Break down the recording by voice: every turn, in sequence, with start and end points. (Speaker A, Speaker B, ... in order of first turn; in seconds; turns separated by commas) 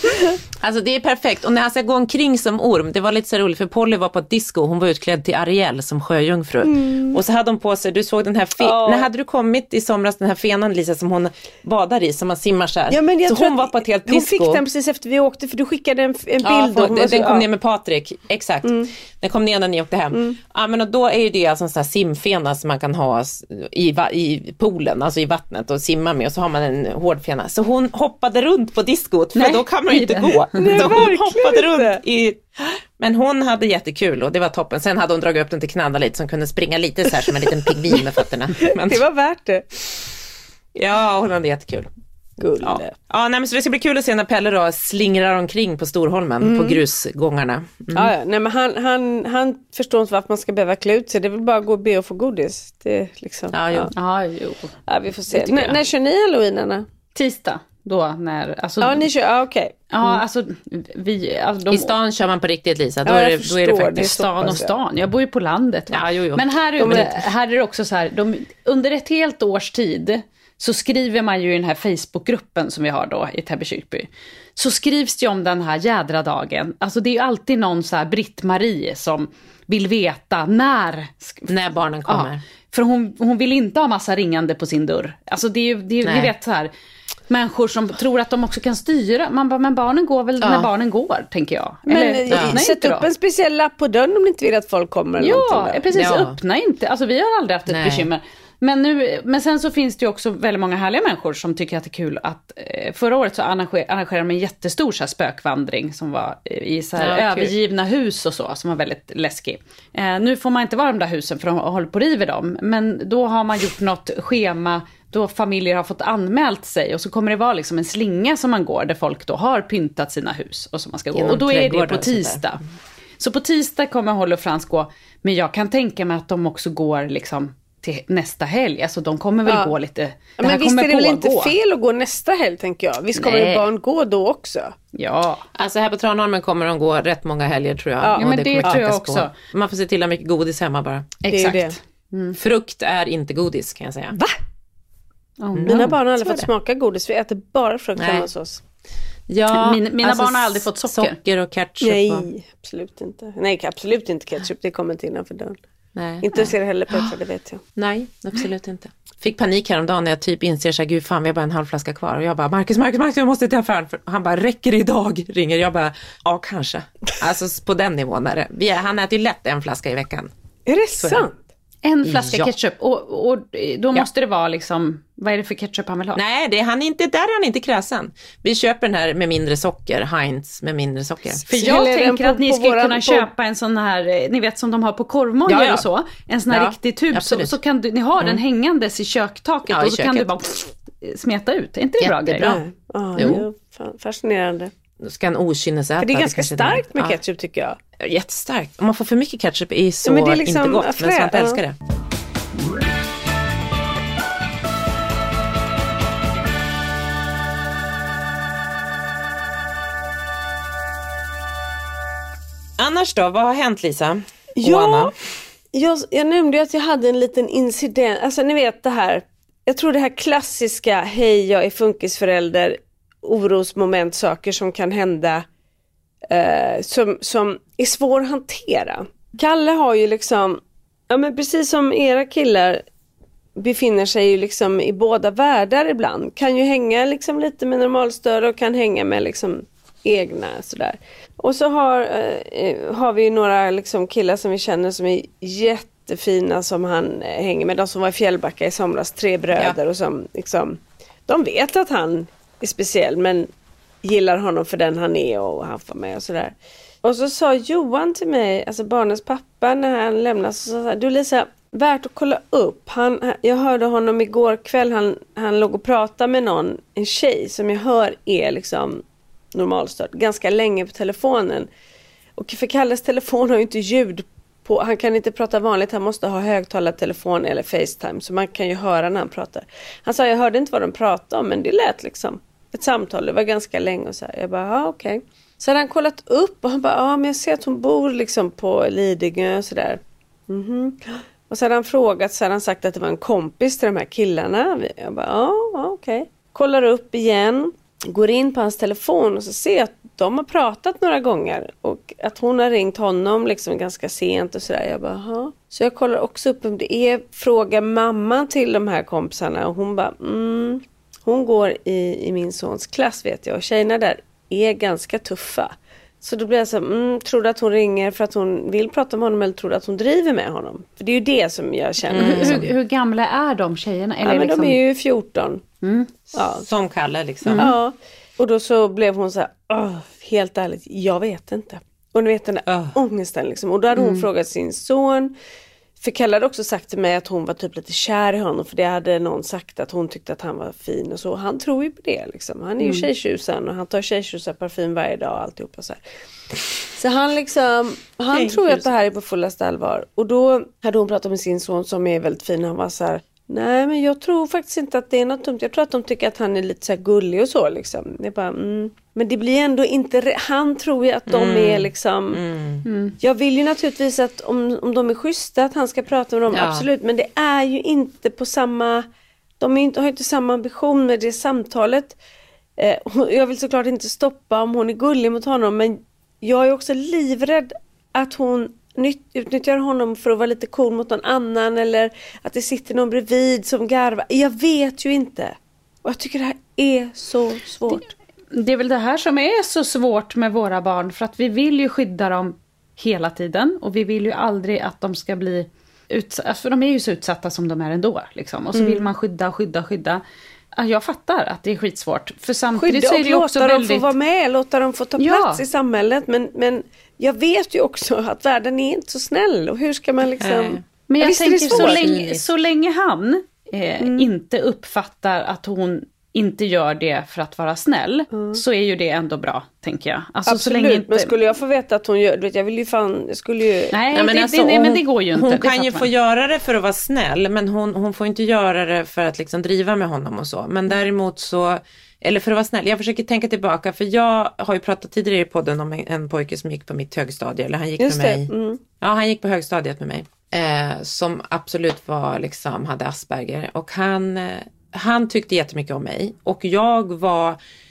Speaker A: 0.6-14.6, Speaker B: 6.6-7.2, Speaker B: 8.6-9.1, Speaker B: 12.9-17.4, Speaker A: 16.4-32.4, Speaker B: 20.1-20.4, Speaker C: 29.4-30.9, Speaker B: 30.6-32.0, Speaker A: 33.0-39.0, Speaker B: 37.3-38.0, Speaker B: 38.7-39.6, Speaker A: 40.7-41.9, Speaker B: 42.4-42.9, Speaker A: 42.6-48.1, Speaker B: 46.4-46.8, Speaker B: 47.9-53.9, Speaker A: 53.5-53.9, Speaker C: 53.9-54.7, Speaker B: 54.9-56.9, Speaker C: 55.3-55.7, Speaker C: 57.1-59.1, Speaker B: 58.8-59.7, Speaker C: 59.9-61.9, Speaker A: 61.7-64.5, Speaker B: 63.0-64.7, Speaker C: 64.0-81.5, Speaker A: 65.9-67.2, Speaker B: 66.8-67.1, Speaker A: 81.5-82.4, Speaker C: 82.0-86.7, Speaker A: 86.0-86.3, Speaker C: 87.3-93.1, Speaker A: 90.4-90.7, Speaker B: 91.9-95.8, Speaker A: 92.3-92.5, Speaker C: 95.2-122.6, Speaker A: 95.9-96.4, Speaker A: 97.7-98.1, Speaker A: 107.0-107.5, Speaker A: 121.1-122.4, Speaker C: 123.2-131.5, Speaker B: 129.5-129.7, Speaker B: 130.4-134.7, Speaker A: 133.2-133.6, Speaker C: 134.9-135.4, Speaker A: 135.6-141.2, Speaker B: 138.0-138.8, Speaker C: 138.2-139.3, Speaker C: 141.2-142.4, Speaker B: 141.3-141.8, Speaker A: 142.4-144.2, Speaker C: 145.4-145.9, Speaker A: 145.6-146.5, Speaker B: 145.7-148.6, Speaker A: 148.0-148.3, Speaker A: 149.3-152.3, Speaker C: 149.5-151.2, Speaker B: 151.8-155.6, Speaker A: 155.9-157.1, Speaker B: 156.2-157.6, Speaker A: 157.8-170.3, Speaker B: 170.7-171.4, Speaker A: 171.0-171.2, Speaker C: 171.8-176.2, Speaker A: 172.0-172.5, Speaker A: 176.1-181.4, Speaker B: 181.4-183.3, Speaker C: 181.5-192.6, Speaker A: 185.5-185.8, Speaker A: 186.5-187.6, Speaker A: 189.7-190.3, Speaker A: 192.0-192.6, Speaker B: 192.4-194.7, Speaker A: 193.1-193.4, Speaker A: 195.0-197.2, Speaker B: 196.0-197.8, Speaker A: 198.0-201.8, Speaker B: 200.0-201.6, Speaker A: 212.8-215.1, Speaker B: 214.6-215.1, Speaker B: 215.7-225.4, Speaker B: 226.3-232.8, Speaker B: 233.6-253.5, Speaker B: 254.0-269.0, Speaker B: 269.5-271.7, Speaker B: 272.4-322.6, Speaker A: 322.1-322.7, Speaker C: 322.2-324.8, Speaker B: 324.2-325.6, Speaker C: 325.8-326.1, Speaker B: 326.3-326.6, Speaker A: 326.6-327.7, Speaker C: 327.4-327.7, Speaker B: 327.6-335.3, Speaker A: 332.7-332.9, Speaker C: 333.9-334.2, Speaker B: 336.0-346.0, Speaker C: 342.8-343.1, Speaker B: 346.9-362.4, Speaker A: 348.3-348.9, Speaker A: 361.3-362.9, Speaker C: 362.9-363.1, Speaker B: 363.2-369.1, Speaker A: 366.5-366.9, Speaker B: 369.6-372.2, Speaker B: 372.8-388.1, Speaker C: 387.9-400.2, Speaker B: 398.7-399.1, Speaker C: 400.8-404.1, Speaker B: 402.8-412.1, Speaker C: 405.2-405.6, Speaker A: 410.4-410.8, Speaker C: 411.1-421.3, Speaker A: 411.7-412.4, Speaker B: 414.0-414.3, Speaker B: 418.3-418.6, Speaker B: 420.5-423.9, Speaker C: 423.9-426.1, Speaker A: 424.1-438.5, Speaker B: 438.0-438.8, Speaker A: 439.0-447.6